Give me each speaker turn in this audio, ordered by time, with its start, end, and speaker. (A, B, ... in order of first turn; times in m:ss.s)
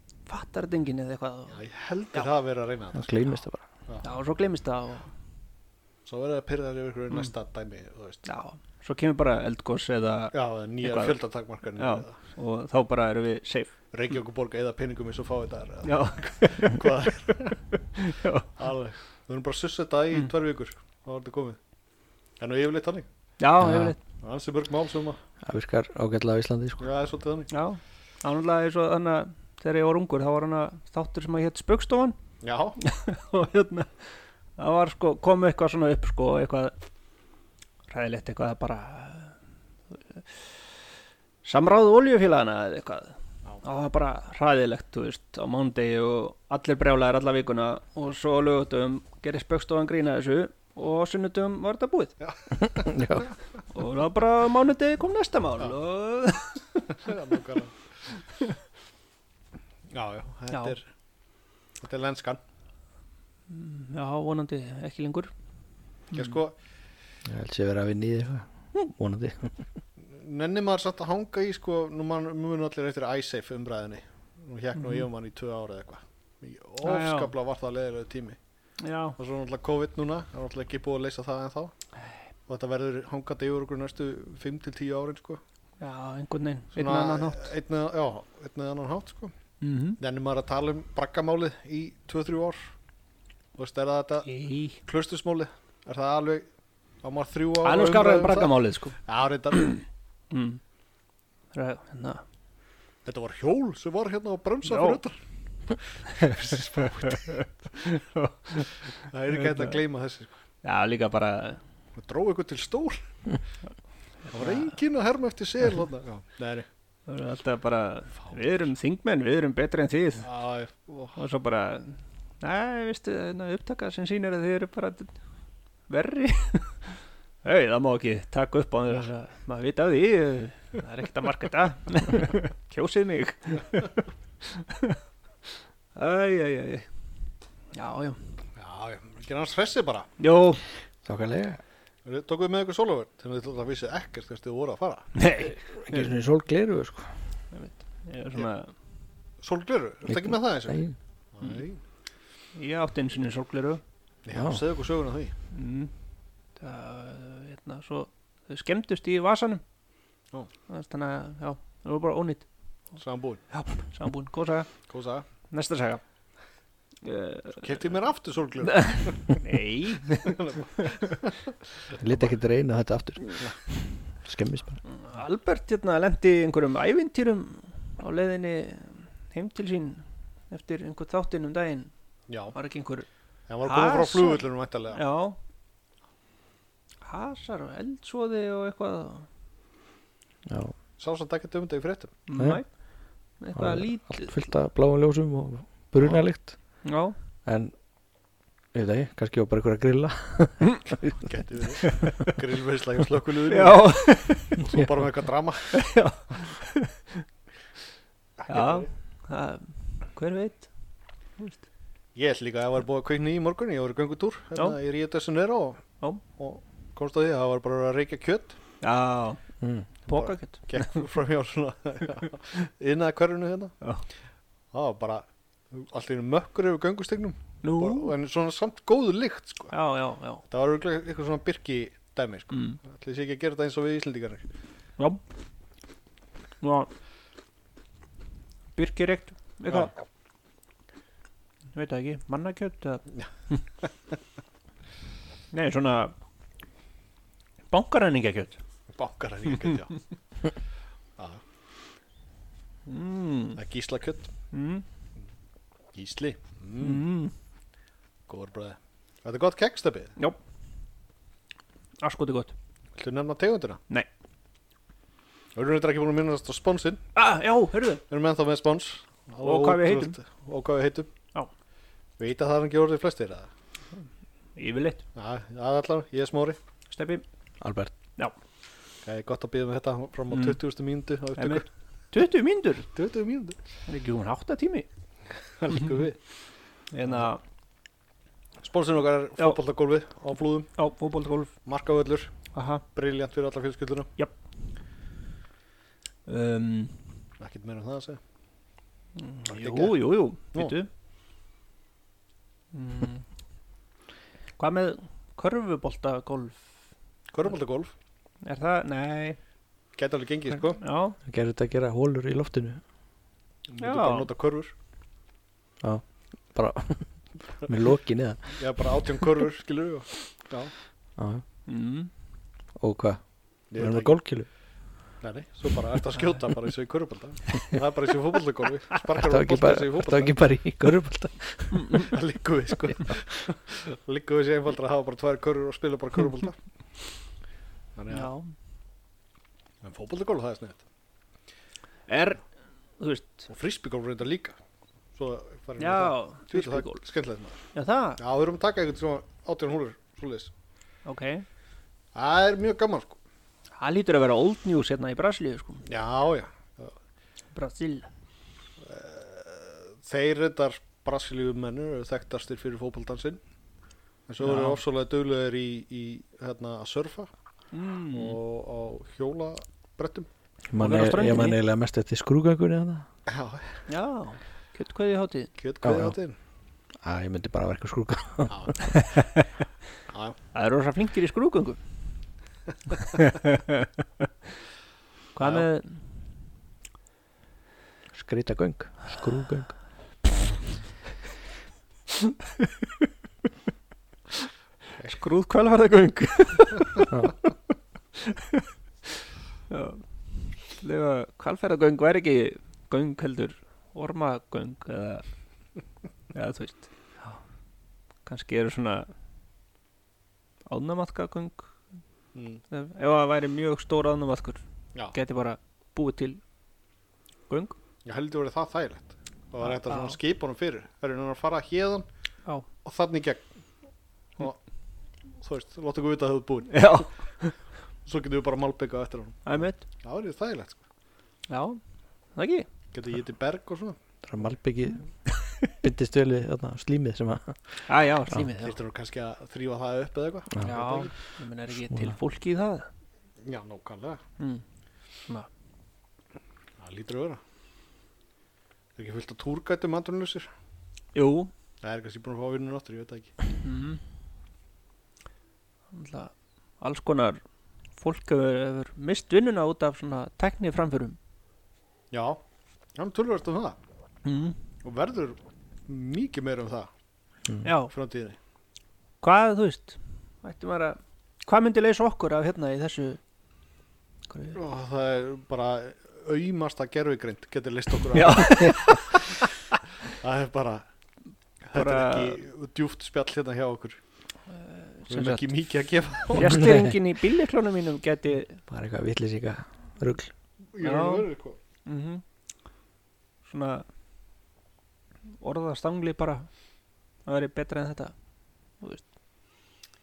0:00.2-0:01.6 A
0:01.5-0:04.0 B
0:02.9-0:03.6 C
0:04.0-0:05.1 A
0:06.0-0:08.2 B
0:08.2-0:11.2 A
0:10.3-0:12.2 B
0:11.8-0:13.7 A
0:13.9-0:17.6 B
0:15.8-0:16.9 A
0:17.7-0:18.5 A
0:18.6-0:21.6 B
0:22.4-0:23.0 B
0:23.4-0:24.0 A
0:23.6-0:23.9 C
0:24.2-0:25.2 B
0:25.4-0:26.9 C
0:26.8-0:27.5 B
0:27.5-0:32.2 A
0:32.4-0:32.8 B
0:32.8-0:34.0 A
0:34.6-0:36.7 A
0:37.9-0:39.4 A
0:41.4-0:52.1 A
0:52.2-0:53.2 B
0:52.6-0:53.3 C
0:53.7-0:57.1 A
0:56.9-0:57.8 B
0:59.9-1:00.8 B
1:00.5-1:00.8 A
1:01.8-1:02.4 B
1:03.5-1:05.3 A
1:06.1-1:06.4 A
1:06.1-1:06.5 B
1:07.2-1:09.7 C
1:10.0-1:18.4 B
1:14.8-1:15.0 A
1:16.8-1:17.3 A
1:18.8-1:19.2 A
1:19.2-1:21.7 B
1:22.5-1:25.4 B
1:25.8-1:27.5 A
1:26.7-1:29.3 B
1:29.6-1:30.0 A
1:30.0-1:32.6 B
1:33.6-1:34.3 B
1:34.2-1:34.8 A
1:34.8-1:36.5 B
1:37.0-1:39.8 B
1:37.6-1:39.0 A
1:39.5-1:40.6 A
1:41.5-1:42.2 A
1:43.0-1:45.2 B
1:44.6-1:45.0 A
1:45.7-1:47.4 B
1:46.1-1:49.8 A
1:49.0-1:50.3 B
1:50.6-1:51.6 A
1:52.0-1:53.0 B
1:54.3-1:54.8 A
1:54.3-1:56.6 B
1:57.1-2:00.2 A
2:00.2-2:01.2 B
2:01.2-2:05.2 A
2:05.9-2:15.0 A
2:15.9-2:16.9 A
2:17.7-2:18.3 A
2:18.6-2:20.1 B
2:20.2-2:20.6 A
2:21.0-2:21.6 C
2:22.0-2:25.1 B
2:25.1-2:26.1 A
2:25.8-2:27.1 C
2:27.5-2:28.7 A
2:29.4-2:31.8 B
2:30.0-2:31.0 C
2:32.6-2:33.8 A
2:34.2-2:35.3 B
2:34.3-2:34.6 C
2:35.5-2:35.9 A
2:36.6-2:39.6 A
2:40.7-2:42.5 A
2:43.0-2:43.4 B
2:43.5-2:44.7 A
2:44.9-2:45.2 B
2:45.5-2:46.0 A
2:47.0-2:47.6 A
2:47.6-2:49.4 B
2:48.6-2:51.0 A
2:50.1-2:52.3 B
2:52.0-2:54.8 C
2:54.9-3:01.9 A
3:02.3-3:02.5 B
3:02.5-3:03.0 A
3:03.5-3:05.0 B
3:03.6-3:05.4 A
3:07.0-3:09.3 A
3:10.5-3:10.7 C
3:11.0-3:12.2 B
3:12.3-3:12.7 A
3:12.4-3:12.6 C
3:13.4-3:14.3 A
3:13.5-3:16.8 C
3:16.0-3:16.2 B
3:16.8-3:17.1 A
3:17.4-3:17.7 C
3:18.7-3:21.2 C
3:21.2-3:25.8 B
3:21.8-3:22.3 A
3:23.5-3:24.6 A
3:25.7-3:27.2 A
3:28.4-3:28.9 B
3:28.5-3:30.7 A
3:32.1-3:35.8 B
3:36.4-3:38.6 B
3:38.8-3:39.4 A
3:39.6-3:39.9 C
3:40.0-3:41.0 A
3:40.1-3:43.7 B
3:44.7-3:49.7 B
3:47.6-3:48.1 A
3:49.7-3:50.4 A
3:50.5-3:54.4 B
3:52.5-3:52.8 A
3:56.6-3:56.9 A
3:58.8-3:59.9 A
4:01.7-4:03.6 A
4:05.5-4:06.2 A
4:07.7-4:08.6 A
4:08.9-4:10.0 B
4:12.9-4:13.6 A
4:13.6-4:14.3 B
4:14.5-4:14.8 A
4:15.9-4:17.1 B
4:16.8-4:17.3 A
4:18.3-4:20.1 B
4:22.0-4:22.5 A
4:23.0-4:23.8 B
4:25.5-4:27.0 B
4:27.1-4:28.0 A
4:28.1-4:31.1 B
4:29.4-4:30.2 A
4:32.2-4:33.5 B
4:34.6-4:35.0 A
4:35.1-4:36.6 B
4:36.9-4:37.2 A
4:37.6-4:37.9 C
4:39.0-4:41.7 B
4:40.3-4:40.6 A
4:41.4-4:42.9 A
4:42.9-4:43.6 B
4:43.9-4:44.9 A
4:45.6-4:46.2 B
4:46.9-4:47.4 A
4:48.6-4:50.7 B
4:50.8-4:51.5 A
4:51.6-4:52.3 B
4:52.5-4:52.8 A
4:52.8-4:54.1 B
4:56.2-4:57.2 A
4:57.4-4:58.2 B
4:59.2-5:00.9 A
4:59.5-5:00.0 B
5:02.7-5:03.2 A
5:04.6-5:06.7 A
5:07.3-5:07.9 B
5:08.4-5:09.4 A
5:10.0-5:10.8 B
5:10.8-5:11.2 A
5:11.2-5:12.8 C
5:13.7-5:14.7 B
5:13.8-5:14.3 A
5:15.8-5:18.6 C
5:18.5-5:20.7 B
5:21.2-5:21.4 C
5:21.7-5:22.1 A
5:22.8-5:23.2 C
5:23.7-5:24.2 B
5:23.7-5:24.5 C
5:25.2-5:30.4 B
5:29.1-5:32.0 C
5:31.7-5:32.1 A
5:31.9-5:36.6 B
5:37.9-5:38.3 B
5:38.1-5:38.5 A
5:39.8-5:40.8 B
5:42.1-5:42.4 A
5:43.0-5:43.5 A
5:43.5-5:44.6 B
5:45.1-5:47.6 B
5:45.8-5:47.0 A
5:47.7-5:48.2 A
5:48.2-5:50.5 B
5:51.0-5:51.4 A
5:52.1-5:53.2 B
5:53.8-5:55.9 A
5:55.9-5:56.9 B
5:57.5-5:58.1 A
5:58.8-6:03.4 B
6:04.3-6:07.3 B
6:04.4-6:04.8 A
6:07.7-6:08.4 A
6:08.1-6:10.3 B
6:10.7-6:13.1 C
6:10.8-6:11.6 A
6:13.3-6:13.8 B
6:13.9-6:15.5 A
6:15.6-6:16.4 B
6:15.8-6:16.2 C
6:17.0-6:18.7 C
6:18.5-6:18.8 B
6:18.8-6:19.5 A
6:20.1-6:20.4 B
6:20.5-6:21.8 A
6:22.9-6:24.2 A
6:25.3-6:26.0 A
6:25.4-6:25.7 B
6:28.1-6:29.8 C
6:32.2-6:33.1 A
6:35.0-6:37.1 A
6:37.1-6:37.3 C
6:38.2-6:38.7 A
6:39.7-6:45.2 A
6:46.3-6:46.9 A
6:48.2-6:49.1 A
6:50.7-6:51.7 A
6:52.3-6:52.6 B
6:52.7-6:54.6 A
6:55.1-6:56.4 A
6:57.5-6:57.8 A
6:58.0-7:02.0 B
6:59.6-7:00.2 A
7:02.8-7:03.4 B
7:05.4-7:07.1 B
7:06.7-7:07.5 A
7:08.0-7:10.8 B
7:09.4-7:09.8 A
7:11.5-7:11.8 A
7:12.3-7:12.7 A
7:12.9-7:14.0 B
7:14.2-7:18.4 C
7:17.9-7:18.8 A
7:18.6-7:21.1 B
7:20.6-7:22.9 A
7:21.9-7:22.1 C
7:23.4-7:24.2 B
7:26.8-7:27.4 B
7:29.0-7:30.5 B
7:31.1-7:31.5 A
7:31.8-7:33.3 B
7:33.6-7:34.0 A
7:35.9-7:37.4 A
7:38.0-7:41.2 A
7:42.1-7:42.4 B
7:43.0-7:43.8 B
7:44.2-7:44.6 A
7:44.8-7:46.9 B
7:47.6-7:47.9 A
7:47.9-7:48.4 B
7:49.2-7:53.2 A
7:54.3-7:54.6 A
7:54.5-7:59.3 B
7:58.1-7:59.4 A
8:00.1-8:00.8 B
8:01.6-8:04.0 B
8:01.7-8:02.4 A
8:04.5-8:05.5 A
8:05.1-8:06.6 B
8:06.3-8:08.6 A
8:06.5-8:06.9 C
8:08.7-8:10.3 C
8:10.7-8:11.6 B
8:10.8-8:11.3 A
8:11.8-8:12.2 A
8:13.4-8:13.8 A
8:15.4-8:16.5 A
8:17.2-8:18.1 A
8:18.8-8:19.0 A